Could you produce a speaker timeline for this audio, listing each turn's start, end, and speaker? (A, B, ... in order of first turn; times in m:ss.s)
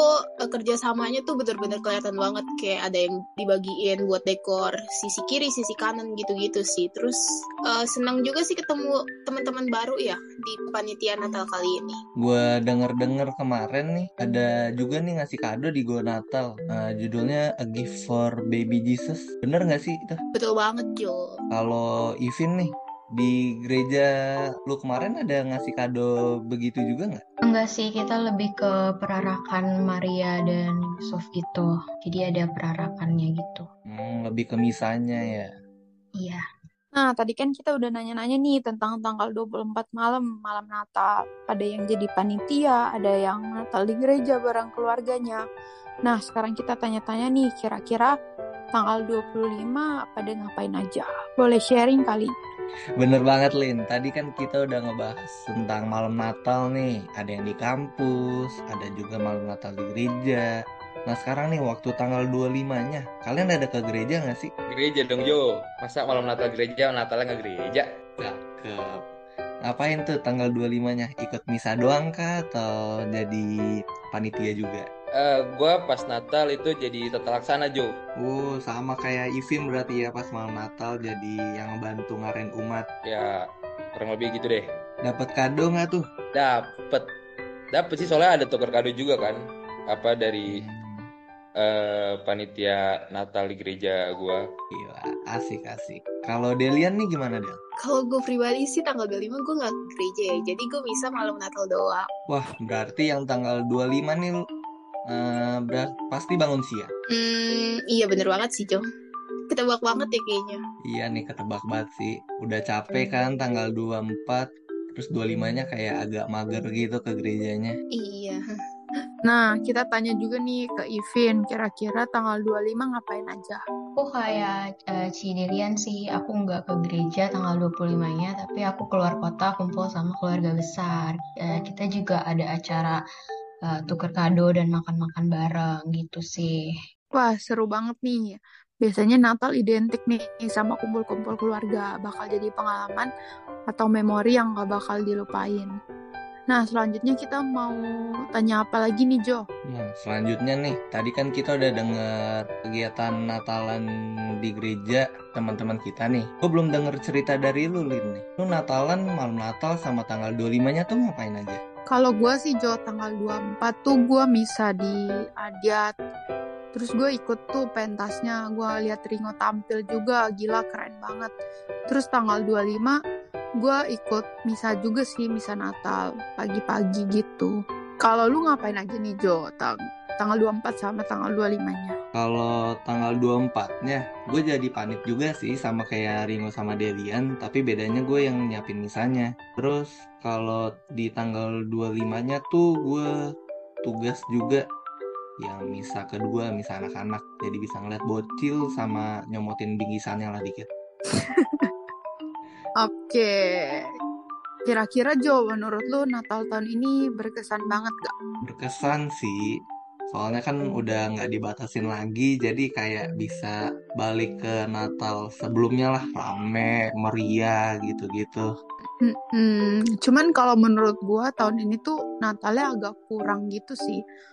0:00.4-0:12.0 A
0:12.2-0:20.2 B
0:20.3-0:21.3 A
0:21.5-0:24.1 B
0:24.7-0:27.2 B
0:27.4-0:33.7 C
0:33.9-0:35.5 B
0:36.2-0:36.4 C
0:36.9-0:45.4 D
0:46.0-0:48.1 D
0:48.7-0:52.3 D
0:53.0-1:00.5 B
1:01.1-1:04.5 B
1:04.7-1:07.9 E
1:08.2-1:09.0 B
1:09.6-1:13.5 B
1:14.1-1:14.9 B
1:15.1-1:17.9 E
1:18.2-1:22.8 B
1:23.0-1:23.4 E
1:23.9-1:24.7 E
1:25.0-1:26.1 B
1:26.3-1:27.1 E
1:27.7-1:30.6 E
1:30.5-1:31.1 B
1:31.6-1:34.4 E
1:34.7-1:37.6 B
1:37.8-1:42.1 A
1:42.3-1:44.4 B
1:45.1-1:46.9 B
1:47.1-1:48.8 A
1:49.5-1:50.6 A
1:50.9-1:57.8 B
1:57.9-1:58.4 A
1:59.2-2:03.6 D
2:04.0-2:13.0 C
2:13.7-2:16.5 C
2:17.2-2:23.1 D
2:23.7-2:25.7 D
2:26.5-2:27.8 D
2:28.3-2:29.4 D
2:29.7-2:33.8 B
2:34.4-2:41.6 B
2:41.9-2:45.9 D
2:46.7-2:51.3 D
2:51.9-2:53.0 D
2:53.6-3:02.0 D
3:02.1-3:13.1 B
3:13.8-3:14.6 B
3:15.4-3:20.7 B
3:21.1-3:21.7 D
3:22.8-3:23.9 D
3:24.7-3:28.1 D
3:28.4-3:29.4 B
3:30.1-3:38.4 B
3:39.0-3:44.0 D